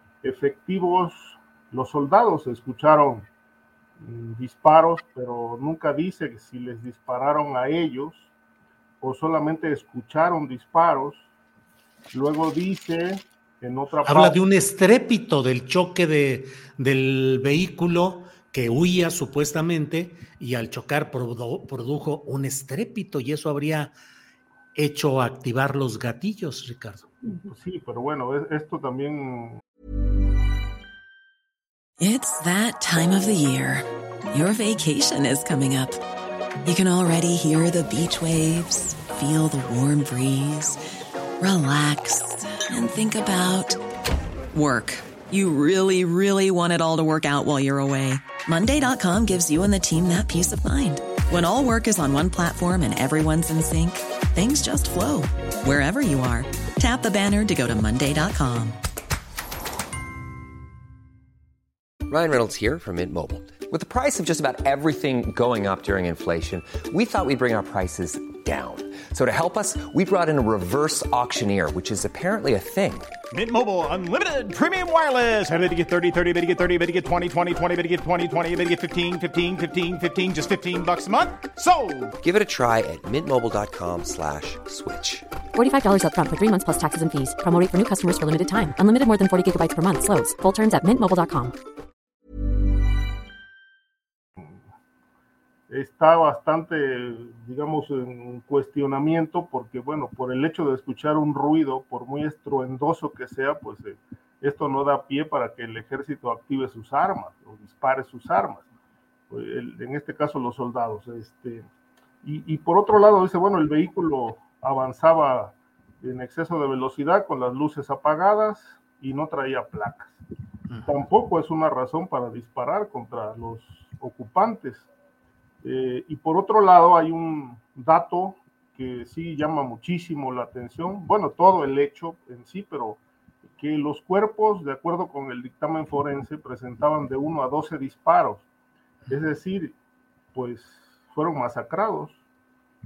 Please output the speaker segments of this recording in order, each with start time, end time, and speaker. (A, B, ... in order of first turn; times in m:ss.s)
0:00.2-0:03.3 A
0:04.0-0:08.3 A
0:09.0-0:11.2 A
0:12.1-0:14.4 A
0:14.0-0:23.9 B
0:24.8-0:27.1 B
0:27.3-0:29.6 A
0:32.0-0:36.0 C
0:36.6-0:40.8 C
0:41.4-0:43.8 C
0:44.5-0:58.8 C
1:02.1-1:13.1 D
1:13.3-1:22.1 E
1:22.2-1:25.3 D
1:25.6-1:31.6 F
1:35.7-1:48.7 A
1:49.3-1:51.7 A
1:52.2-2:00.2 A
2:00.7-2:00.9 B
2:00.9-2:04.9 A
2:05.6-2:13.0 A
2:13.6-2:18.5 A
2:19.1-2:19.7 A
2:20.3-2:22.2 A